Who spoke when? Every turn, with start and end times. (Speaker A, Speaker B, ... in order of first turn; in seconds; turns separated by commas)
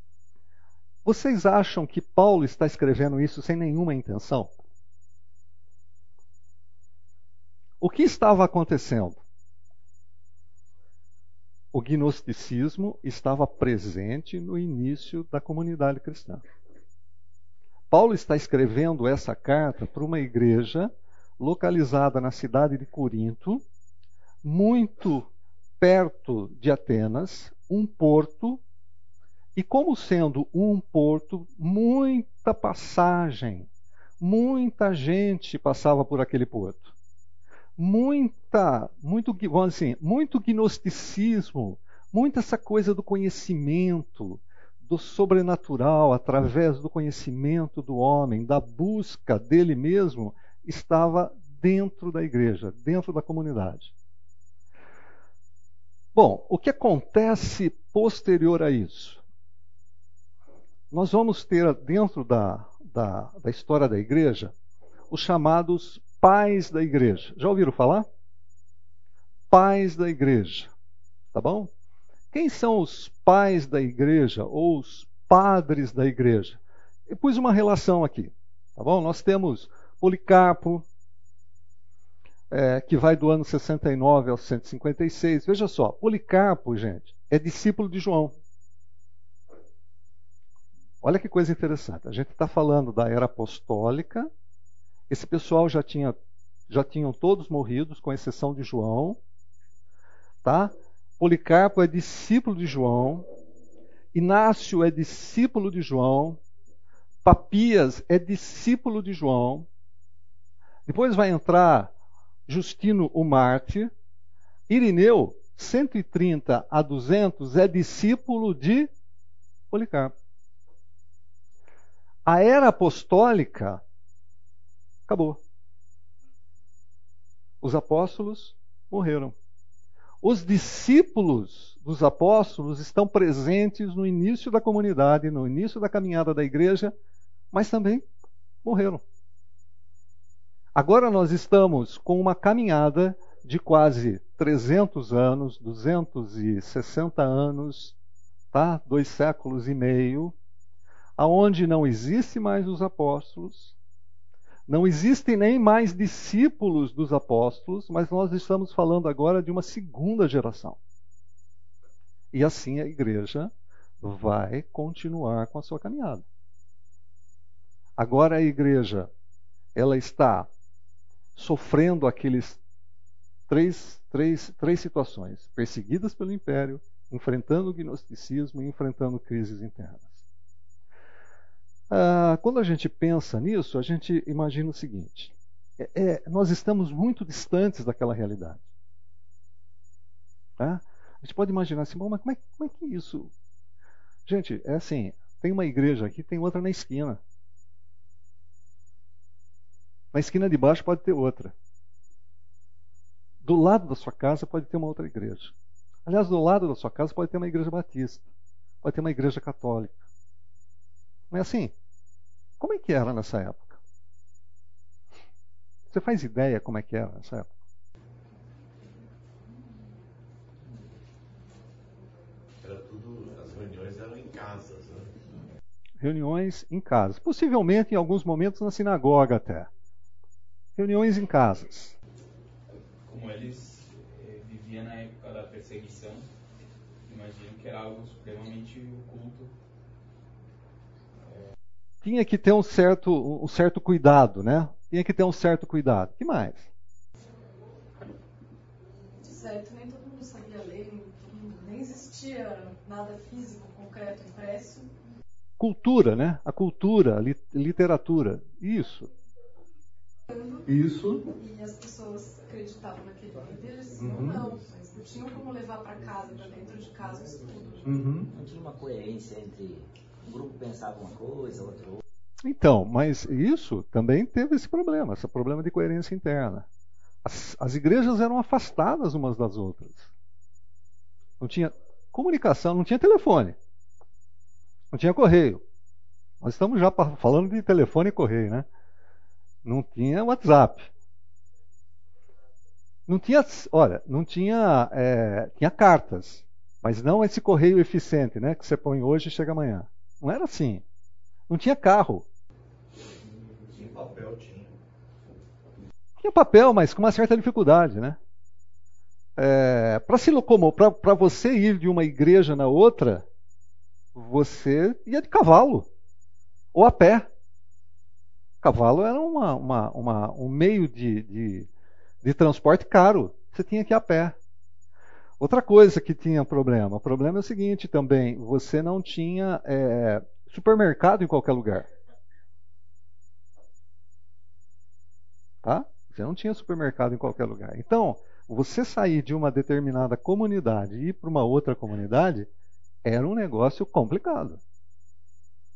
Speaker A: 1.0-4.5, Speaker A: 7.8-9.2, Speaker A: 11.7-16.4, Speaker A: 17.9-23.6, Speaker A: 24.4-25.2, Speaker A: 25.8-28.6, Speaker A: 29.6-33.7, Speaker A: 34.2-36.9, Speaker A: 37.8-53.9, Speaker A: 56.1-59.2, Speaker A: 60.9-64.5, Speaker A: 65.1-68.0, Speaker A: 69.5-70.7, Speaker A: 71.3-71.7, Speaker A: 72.3-80.8, Speaker A: 82.5-88.3, Speaker A: 91.0-94.3, Speaker A: 95.1-96.2, Speaker A: 96.7-99.2, Speaker A: 100.4-103.3, Speaker A: 104.1-106.4, Speaker A: 107.2-109.7, Speaker A: 110.8-111.9, Speaker A: 112.5-113.9, Speaker A: 114.7-118.9, Speaker A: 119.7-120.1, Speaker A: 122.2-123.8, Speaker A: 125.1-125.4, Speaker A: 127.6-129.3, Speaker A: 130.2-136.9, Speaker A: 137.5-138.0, Speaker A: 138.6-139.0, Speaker A: 140.7-147.9, Speaker A: 148.5-150.3, Speaker A: 151.2-153.7, Speaker A: 154.7-160.8, Speaker A: 162.3-166.2, Speaker A: 168.0-169.1, Speaker A: 169.7-170.5, Speaker A: 171.3-172.6, Speaker A: 173.5-180.2, Speaker A: 181.9-188.6, Speaker A: 190.6-193.3, Speaker A: 194.2-197.2, Speaker A: 200.1-201.5, Speaker A: 203.4-205.5, Speaker A: 206.1-208.2, Speaker A: 208.8-210.0, Speaker A: 211.3-211.7, Speaker A: 212.6-213.8, Speaker A: 215.9-217.5, Speaker B: 222.6-225.2, Speaker A: 226.0-229.7, Speaker A: 230.8-231.9, Speaker C: 233.1-236.3, Speaker C: 237.0-239.5, Speaker A: 242.0-246.7, Speaker D: 249.2-254.9, Speaker A: 255.6-259.1, Speaker D: 260.3-260.6, Speaker A: 260.6-261.2, Speaker D: 261.3-267.9, Speaker A: 264.0-264.4, Speaker A: 267.8-268.3, Speaker E: 268.3-272.0, Speaker A: 272.4-276.6, Speaker A: 277.2-280.1, Speaker A: 281.4-283.6, Speaker A: 284.9-285.6, Speaker A: 286.4-288.6, Speaker A: 289.6-290.9, Speaker A: 293.1-300.8, Speaker A: 301.5-302.2, Speaker E: 303.7-304.6, Speaker A: 306.2-308.2, Speaker A: 309.4-313.2, Speaker A: 314.1-315.9, Speaker A: 316.7-317.3, Speaker A: 318.6-321.7, Speaker A: 322.2-324.4, Speaker A: 325.4-331.9, Speaker A: 335.6-342.5, Speaker A: 343.0-344.6